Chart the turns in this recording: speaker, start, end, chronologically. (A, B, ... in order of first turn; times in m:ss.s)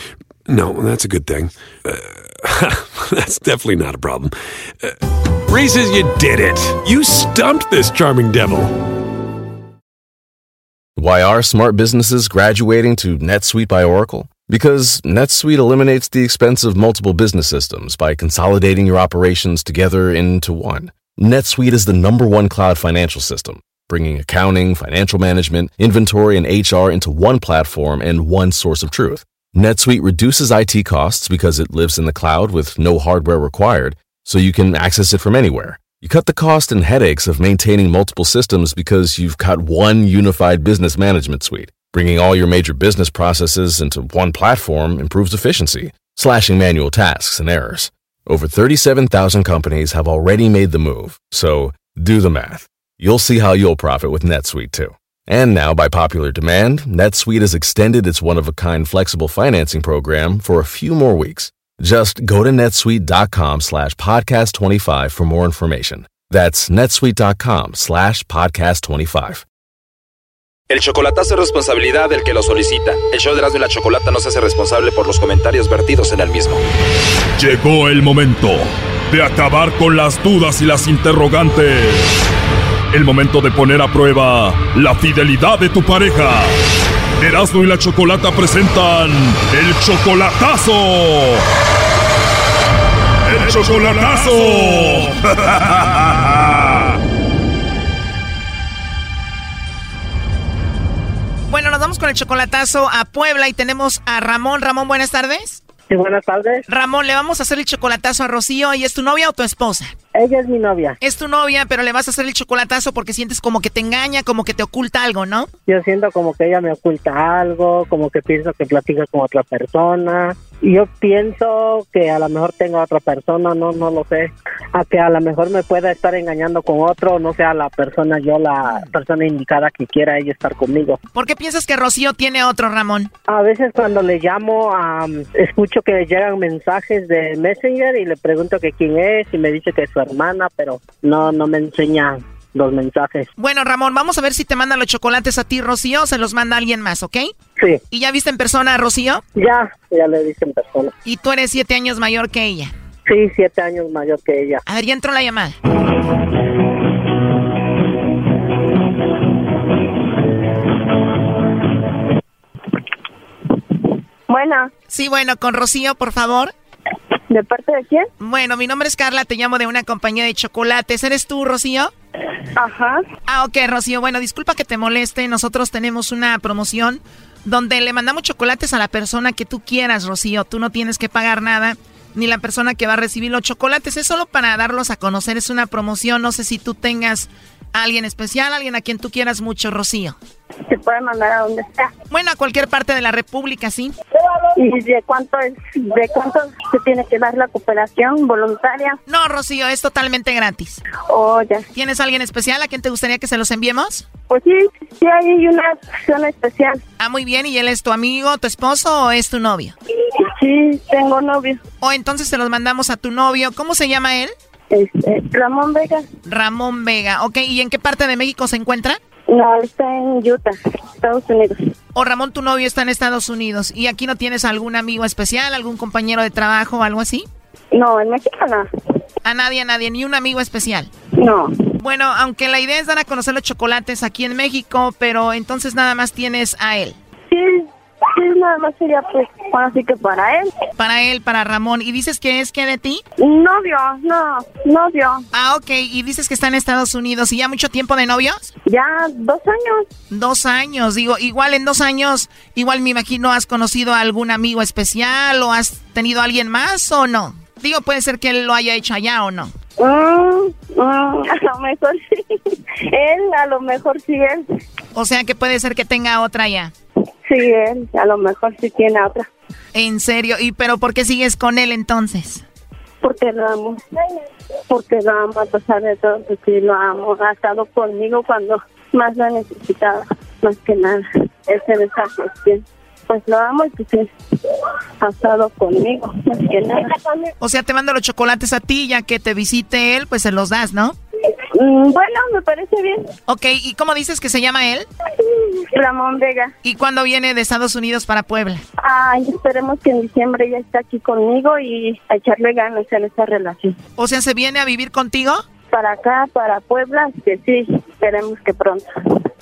0:00.5-0:08.8 A
0:11.0-1:09.4 B
1:10.7-1:16.6 C
1:17.4-1:22.3 D
1:22.9-1:26.6 D
1:27.2-1:31.4 D
1:33.3-1:36.4 D
1:41.5-1:45.6 E
1:45.9-1:46.6 F
1:46.7-1:49.9 E
1:50.1-1:51.0 F
1:51.0-1:55.5 E
1:55.7-2:11.0 F
2:11.1-2:13.1 E
2:13.3-2:23.3 F
2:23.4-2:27.3 E
2:27.9-2:29.2 E
2:29.4-2:30.9 F
2:31.0-2:32.7 E
2:33.0-2:34.6 F
2:34.7-2:35.6 E
2:44.3-2:44.7 G
2:44.9-2:46.5 E
2:47.3-2:48.1 G
2:48.2-2:51.9 E
2:52.5-2:53.0 G
2:53.3-3:10.2 E
3:10.7-3:11.9 G
3:12.1-3:13.9 E
3:14.5-3:19.0 G
3:19.1-3:20.8 E
3:21.0-3:21.6 G
3:21.7-3:24.0 E
3:24.3-3:26.8 G
3:27.0-3:29.7 E
3:30.0-3:31.6 G
3:31.8-3:34.3 E
3:34.7-3:36.1 G
3:36.2-3:39.0 E
3:39.3-3:41.6 G
3:41.9-3:47.2 E
3:47.7-3:48.6 G
3:49.2-3:50.9 E
3:51.2-3:51.5 G
3:51.8-3:57.0 E
3:57.3-4:00.5 G
4:00.8-4:03.0 E
4:03.2-4:05.2 G
4:05.3-4:08.5 E
4:08.6-4:09.8 G
4:10.1-4:19.5 E
4:19.8-4:24.5 G
4:24.9-4:26.7 E
4:27.2-4:29.2 G
4:29.7-4:32.4 E
4:33.0-4:33.8 G
4:34.7-4:47.3 G
4:47.4-4:51.0 E
4:51.5-4:53.0 G
4:53.3-4:54.9 E
4:55.2-4:56.5 G
4:56.6-4:58.6 E
4:58.8-5:03.8 G
5:04.0-5:05.4 E
5:05.7-5:08.9 G